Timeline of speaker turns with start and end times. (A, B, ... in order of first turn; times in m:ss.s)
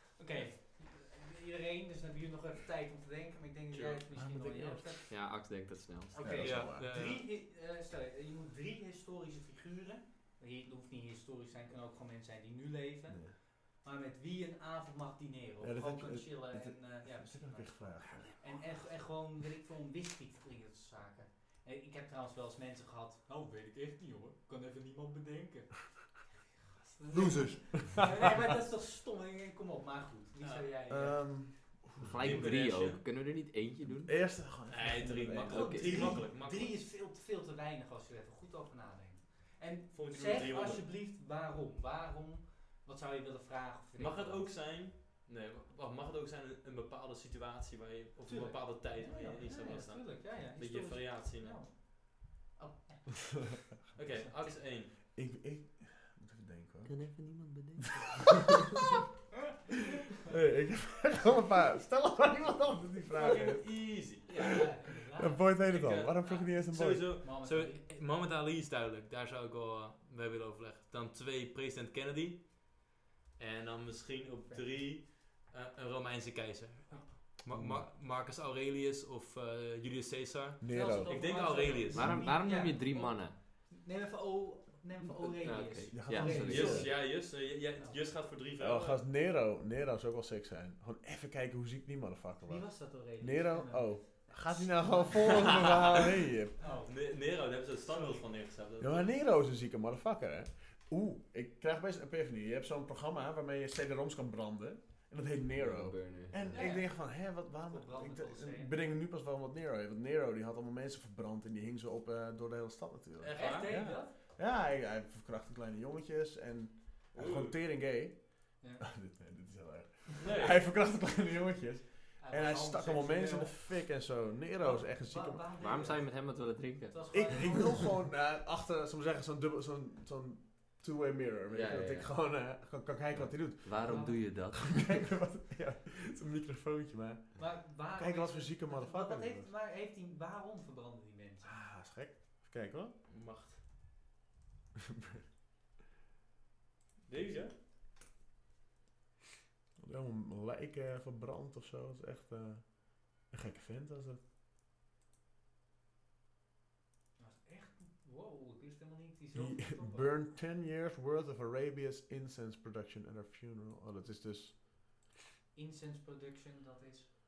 0:00.2-0:05.1 A
0:03.7-0:04.0 B
0:04.2-0:05.0 C
0:05.1-0:06.4 D
0:06.1-0:31.3 A
0:06.2-0:06.9 C
0:06.4-0:07.2 B
0:15.6-0:18.4 C
0:27.1-0:28.2 C
0:30.9-0:32.6 C
0:32.0-0:34.3 D
0:32.2-0:33.0 B
0:33.9-0:36.2 C
0:34.7-0:36.7 B
0:35.5-0:44.5 A
0:39.9-0:40.8 B
0:44.0-0:51.6 B
0:48.3-0:54.6 A
0:54.0-0:54.9 B
0:55.1-0:57.3 C
0:56.9-0:58.7 D
1:00.2-1:03.8 C
1:03.1-1:04.6 B
1:04.2-1:05.5 A
1:05.2-1:07.2 C
1:05.7-1:12.9 B
1:07.2-1:07.8 A
1:13.4-1:22.2 B
1:17.5-1:17.9 C
1:20.6-1:21.1 C
1:20.7-1:27.1 A
1:21.9-1:23.4 D
1:25.4-1:26.8 D
1:25.9-1:26.9 C
1:26.3-1:29.0 B
1:27.8-1:28.1 A
1:28.6-1:36.6 C
1:32.5-1:35.7 A
1:35.2-1:36.0 B
1:36.6-1:37.0 A
1:36.9-1:39.1 B
1:37.9-1:38.2 A
1:38.8-2:05.4 C
1:45.6-1:46.7 D
1:46.5-1:47.0 A
1:47.7-1:48.7 A
1:53.2-1:53.7 B
1:53.3-1:54.1 A
1:57.1-1:57.6 B
2:00.2-2:00.6 B
2:02.2-2:03.6 A
2:04.6-2:06.1 A
2:05.6-2:07.0 D
2:06.9-2:07.8 A
2:07.1-2:14.0 C
2:11.5-2:12.3 D
2:13.1-2:14.8 D
2:13.8-2:14.2 A
2:14.5-2:19.5 C
2:17.4-2:21.5 A
2:21.4-2:23.0 C
2:23.1-2:23.6 B
2:24.9-2:25.2 C
2:27.1-2:27.5 B
2:29.8-2:34.2 C
2:37.2-2:40.1 A
2:39.4-2:44.6 C
2:45.5-2:47.1 A